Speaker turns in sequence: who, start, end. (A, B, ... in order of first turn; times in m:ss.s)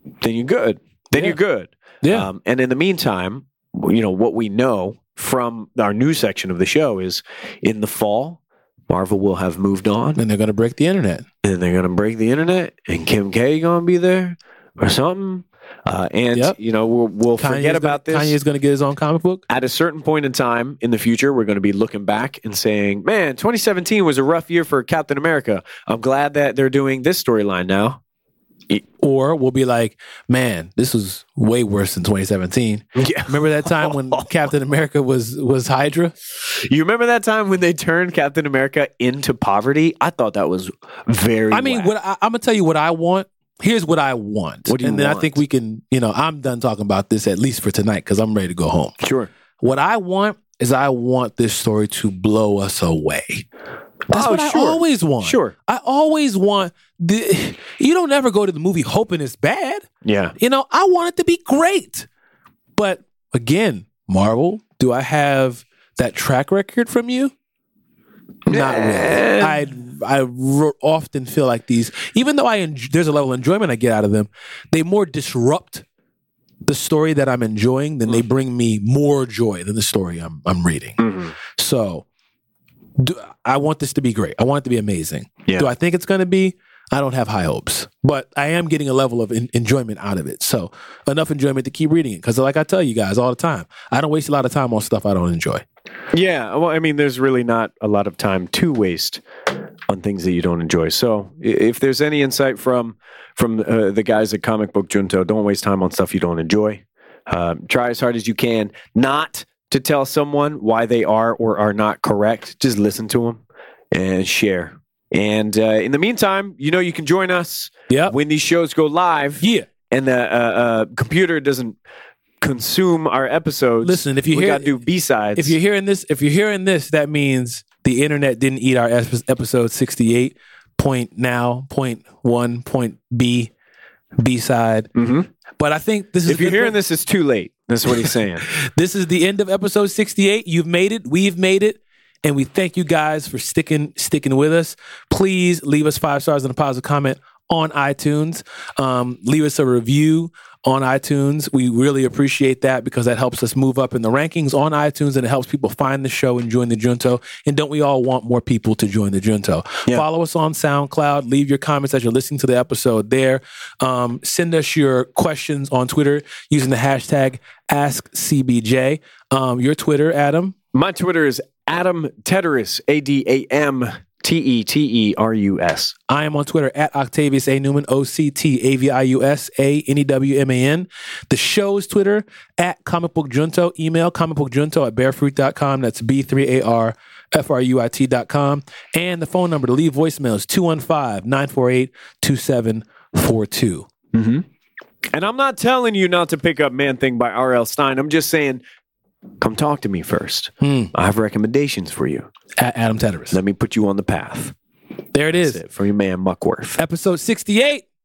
0:00.2-0:10.2 A
0:02.0-0:02.3 B
0:10.2-0:11.2 B
0:11.4-0:18.4 A
0:17.4-0:19.4 B
0:19.5-0:28.0 A
0:29.0-0:36.1 B
0:33.0-0:34.2 A
0:36.4-0:41.9 A
0:41.5-0:48.9 B
0:44.6-0:45.4 A
0:49.0-0:49.3 A
0:49.6-0:53.5 B
0:54.1-0:59.8 B
0:54.1-0:55.5 A
1:00.0-1:00.3 A
1:00.4-1:02.1 B
1:02.8-1:07.3 B
1:08.5-1:09.6 A
1:08.5-1:15.8 B
1:16.6-1:22.0 B
1:21.0-1:21.3 A
1:23.0-1:35.6 B
1:36.1-1:39.2 A
1:39.9-2:01.8 A
1:57.9-1:58.1 B
1:59.4-1:59.7 B
2:02.4-2:05.6 A
2:03.8-2:04.7 B
2:05.4-2:13.5 B
2:14.2-2:14.9 B
2:14.9-2:15.3 A
2:15.6-2:16.8 B
2:16.2-2:18.4 A
2:17.9-2:50.5 B
2:50.7-2:55.9 A
2:56.1-3:13.9 B
3:14.1-3:14.4 A
3:15.1-3:18.6 A
3:19.4-3:22.3 A
3:20.6-3:20.9 B
3:22.6-3:23.4 B
3:23.3-3:24.5 A
3:25.1-3:25.6 B
3:25.3-3:26.8 A
3:26.8-3:27.8 B